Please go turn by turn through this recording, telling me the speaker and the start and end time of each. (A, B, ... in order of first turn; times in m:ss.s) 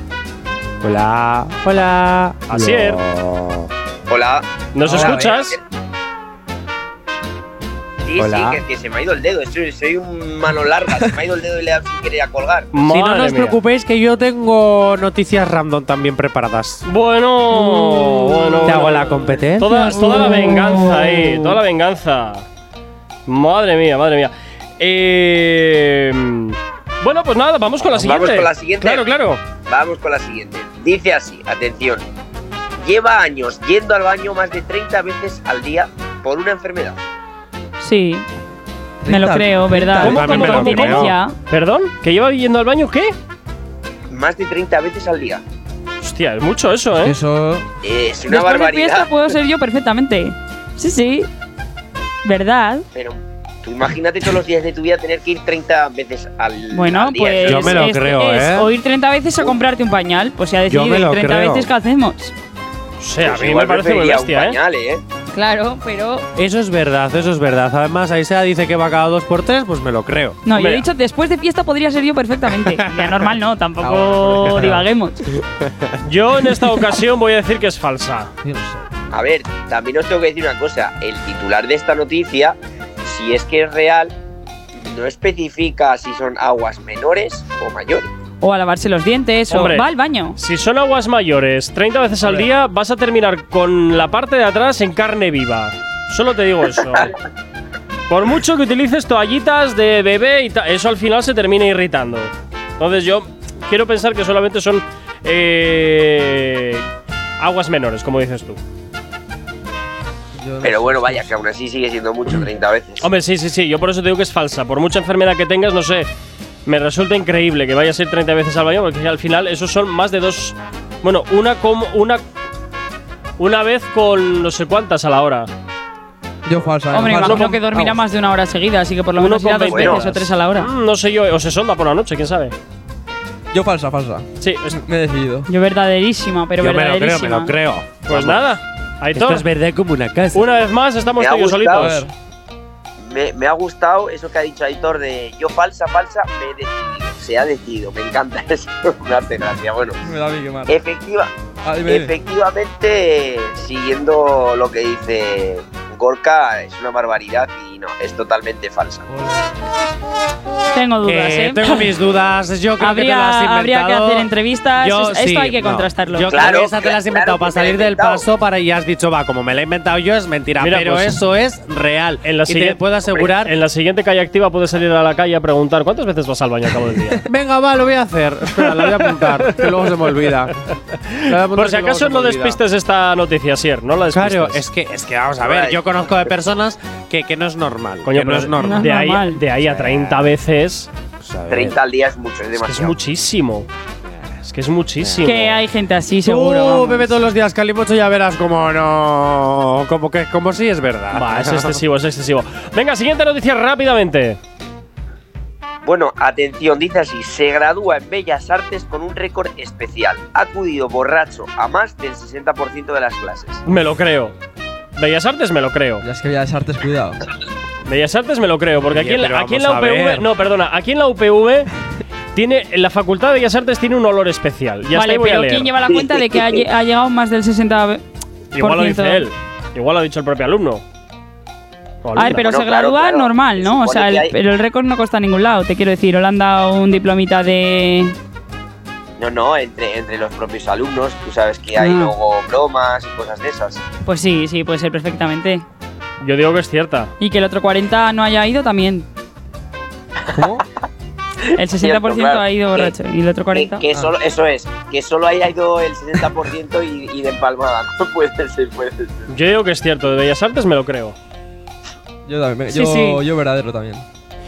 0:00.8-0:03.7 A
0:02.5-0:03.0 B
0:04.1-0:05.6 C
0:04.7-0:05.6 B
0:04.8-0:05.3 A
0:08.0-0:12.7 C
0:08.2-0:08.6 A
0:12.7-0:13.6 B
0:12.8-0:16.9 A
0:16.9-0:22.5 B
0:18.6-0:20.0 A
0:19.7-0:20.9 D
0:23.3-0:29.4 B
0:27.9-0:32.0 C
0:32.8-0:37.0 C
0:37.8-0:38.2 D
0:39.0-0:40.3 E
0:39.1-0:41.4 D
0:40.0-0:41.2 A
0:40.0-0:43.2 B
0:44.1-0:45.4 C
0:46.0-0:47.2 B
0:47.0-0:47.7 E
0:47.8-0:49.1 C
0:48.3-0:51.3 D
0:52.2-0:52.8 D
0:53.0-0:57.8 C
0:56.7-1:02.3 D
0:57.4-0:58.7 A
1:00.7-1:01.7 A
1:03.0-1:04.6 B
1:03.2-1:05.0 C
1:05.3-1:06.3 D
1:06.4-1:10.4 A
1:10.5-1:15.3 D
1:10.6-1:10.9 B
1:12.5-1:13.2 A
1:13.8-1:14.9 E
1:15.7-1:16.0 A
1:16.0-1:18.3 B
1:18.4-1:18.8 E
1:19.1-1:24.1 C
1:24.8-1:28.1 C
1:28.4-1:30.4 D
1:29.5-1:29.8 B
1:30.4-1:37.2 B
1:38.1-1:46.8 B
1:47.4-1:48.6 B
1:50.4-1:51.4 E
1:50.6-1:53.1 C
1:53.0-1:56.1 B
1:56.7-2:02.2 B
2:03.4-2:05.5 B
2:06.5-2:08.0 E
2:06.9-2:10.7 D
2:07.1-2:07.5 B
2:09.2-2:12.6 B
2:09.7-2:10.0 C
2:13.5-2:15.5 E
2:14.4-2:14.8 B
2:15.5-2:17.5 D
2:16.6-2:18.5 A
2:18.1-2:19.5 B
2:19.2-2:20.5 A
2:20.3-2:22.0 B
2:21.2-2:22.0 C
2:21.7-2:22.1 E
2:23.0-2:30.0 C
2:30.0-2:30.8 E
2:30.7-2:31.3 C
2:31.6-2:32.2 E
2:31.8-2:39.1 C
2:39.1-2:39.5 E
2:40.7-2:41.9 D
2:41.0-2:53.5 A
2:42.8-2:46.4 D
2:46.3-2:48.2 C
2:50.6-2:51.2 B
2:52.2-2:57.2 B
2:57.3-3:00.6 A
2:58.6-2:59.9 B
3:01.1-3:02.6 A
3:01.2-3:04.7 B
3:04.1-3:08.9 A
3:05.4-3:05.8 C
3:08.0-3:10.9 B
3:08.6-3:09.4 D
3:09.6-3:10.4 A
3:11.2-3:11.8 A
3:11.5-3:13.0 C
3:12.6-3:13.7 B
3:14.1-3:14.3 A
3:14.4-3:15.6 B
3:15.0-3:15.3 A
3:15.2-3:17.1 D
3:16.2-3:21.8 A
3:21.1-3:24.4 B
3:25.8-3:33.6 C
3:33.7-3:34.3 B
3:35.0-3:36.0 B
3:36.0-3:37.2 E
3:37.9-3:41.7 B
3:38.9-3:40.3 A
3:42.3-3:45.7 B
3:44.9-3:48.0 D
3:45.9-3:46.7 C
3:48.5-3:50.8 B
3:48.6-3:49.3 D
3:52.0-3:52.5 B
3:52.2-3:58.2 D
3:52.3-3:54.3 C
3:59.2-4:03.8 C
4:01.8-4:02.1 D
4:04.0-4:05.6 D
4:06.2-4:07.1 B
4:07.2-4:09.1 D
4:11.5-4:13.8 D
4:11.8-4:13.0 C
4:13.5-4:19.3 C
4:19.3-4:21.2 B
4:22.3-4:24.0 E
4:22.7-4:23.2 D